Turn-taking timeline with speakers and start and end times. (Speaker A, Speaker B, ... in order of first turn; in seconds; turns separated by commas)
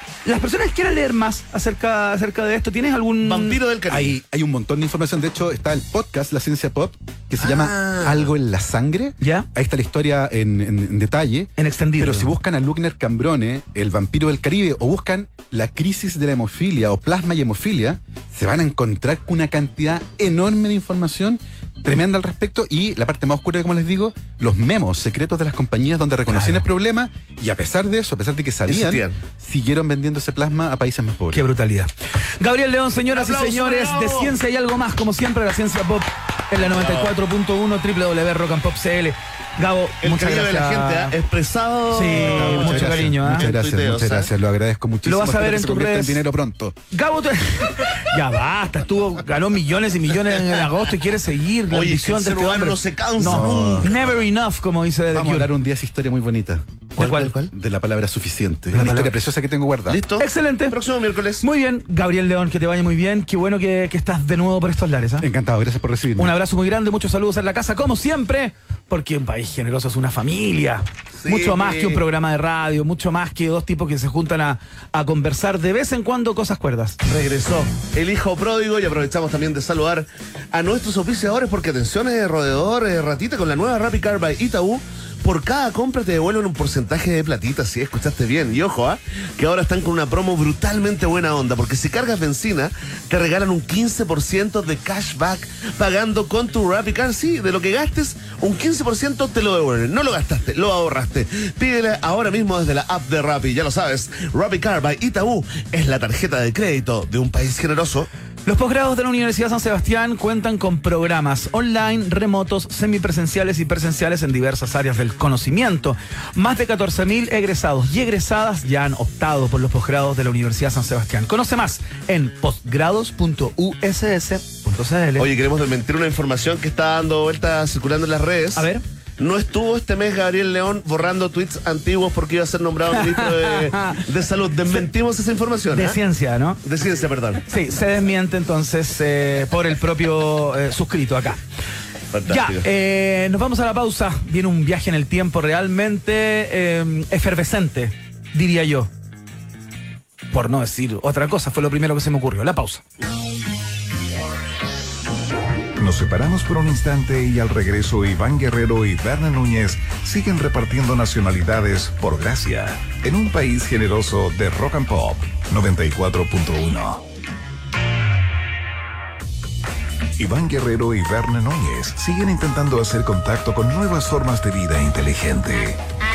Speaker A: 0.2-3.6, Speaker B: 3.2-4.2, Speaker C: 3.9-31.4, Speaker B: 7.4-8.3, Speaker A: 9.2-9.5, Speaker A: 11.6-12.3, Speaker A: 26.3-26.6, Speaker B: 28.7-29.2, Speaker A: 31.3-41.1, Speaker B: 33.1-34.4, Speaker B: 36.6-37.1, Speaker B: 40.0-44.3, Speaker A: 41.9-43.5, Speaker C: 42.1-46.8, Speaker A: 45.0-46.2, Speaker A: 46.9-55.5, Speaker B: 51.7-54.0, Speaker C: 53.2-53.9, Speaker C: 55.1-56.8, Speaker A: 57.0-57.3, Speaker B: 57.0-57.5, Speaker C: 57.5-60.0, Speaker A: 58.7-59.1, Speaker B: 59.9-61.4, Speaker A: 60.2-60.8, Speaker A: 61.4-65.3, Speaker C: 65.2-66.3, Speaker A: 66.2-77.0, Speaker B: 71.1-72.0, Speaker B: 77.0-108.1, Speaker A: 108.4-125.3, Speaker B: 125.2-136.0, Speaker A: 128.5-128.8, Speaker A: 132.9-134.0, Speaker A: 135.7-136.6, Speaker B: 136.6-137.4, Speaker A: 137.5-141.4, Speaker B: 142.1-142.7, Speaker A: 142.3-148.9, Speaker A: 150.3-152.8, Speaker D: 155.8-167.0, Speaker D: 170.2-175.8